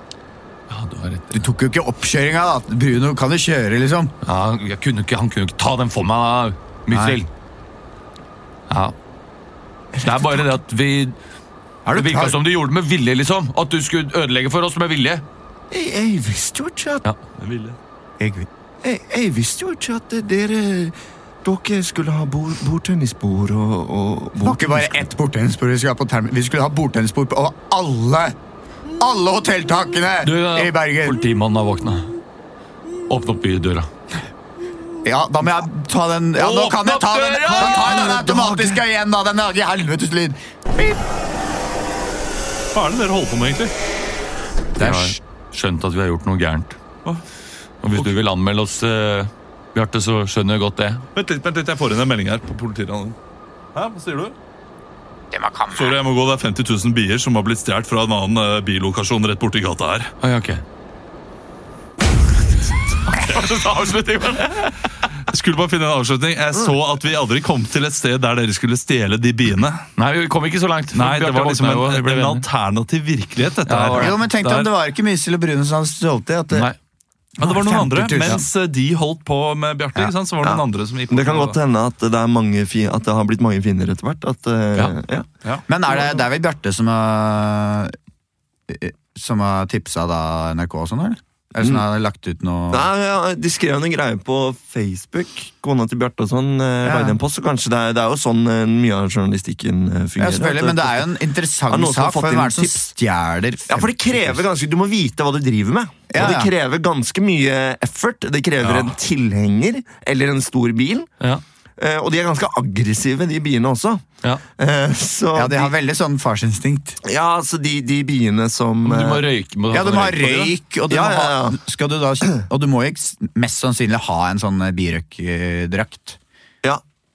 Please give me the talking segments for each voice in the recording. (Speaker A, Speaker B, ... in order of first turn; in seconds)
Speaker A: 0.7-1.4, 4.2-7.3, 8.7-8.9, 10.0-11.1, 11.8-15.2, 30.2-32.1, 33.1-33.9, 36.3-38.1, 44.8-46.8, 47.8-51.0, 60.2-60.6, 63.0-65.1, 70.0-72.5, 73.7-74.2, 76.5-76.8, 118.8-120.5
Speaker B: 1.3-4.1, 6.9-7.2, 18.2-18.5, 24.4-28.4, 29.0-31.3, 35.0-41.0, 44.8-45.2, 55.3-56.0, 74.0-76.7, 77.4-78.4, 85.7-88.0, 88.7-92.9, 96.8-97.2, 100.2-104.4, 106.1-106.5, 115.3-117.0, 119.7-126.2
Speaker C: 9.9-10.6, 11.9-12.4, 15.7-17.0, 18.8-25.0, 37.5-38.8, 80.4-85.3, 85.9-86.2, 91.6-91.8, 92.7-101.0, 101.7-102.8, 103.7-111.1, 111.8-115.7, 117.0-119.2, 120.9-121.6
Speaker D: 17.4-17.8, 42.7-43.7, 51.1-53.1, 53.7-54.3, 55.7-60.1, 65.2-69.9, 70.9-74.7, 77.4-81.6, 108.6-108.9